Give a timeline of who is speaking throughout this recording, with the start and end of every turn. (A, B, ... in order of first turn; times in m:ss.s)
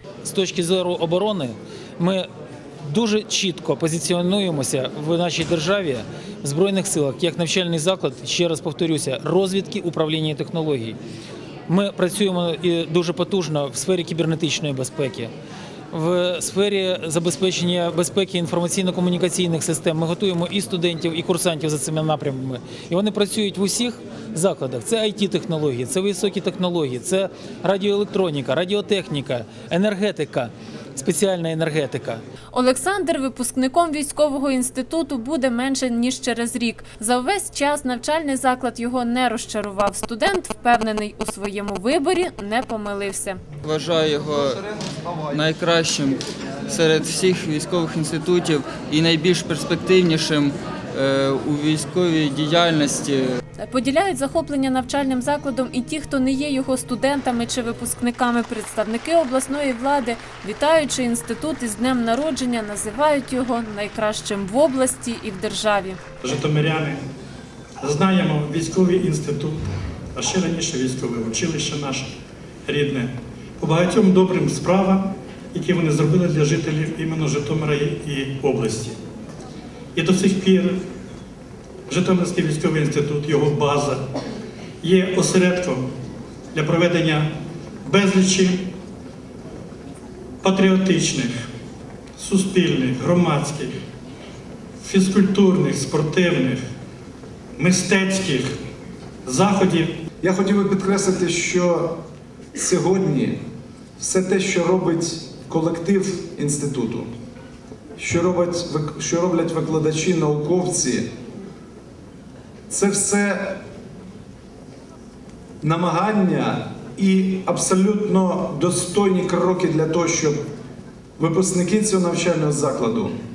0:00.2-0:02.3 A
0:02.8-0:11.0 A
0:11.7-0:15.3 A
0:15.9-0:32.2 A
0:32.5-0:43.4 B
0:43.6-0:44.7 C
0:45.3-0:53.4 C
0:53.6-1:06.0 B
1:06.2-1:07.0 D
1:07.8-1:19.0 D
1:20.0-1:20.8 D
1:21.9-1:24.0 D
1:24.8-1:25.9 D
1:26.5-1:27.3 D
1:27.8-1:28.7 D
1:30.4-1:31.5 D
1:32.2-1:33.7 D
1:34.8-1:36.6 D
1:37.6-1:38.5 D
1:39.2-1:39.9 D
1:40.2-1:42.0 E
1:42.6-1:43.4 E
1:44.0-1:47.1 E
1:48.0-1:51.1 E
1:52.7-1:53.6 E
1:55.6-2:00.4 E
2:01.2-2:03.1 E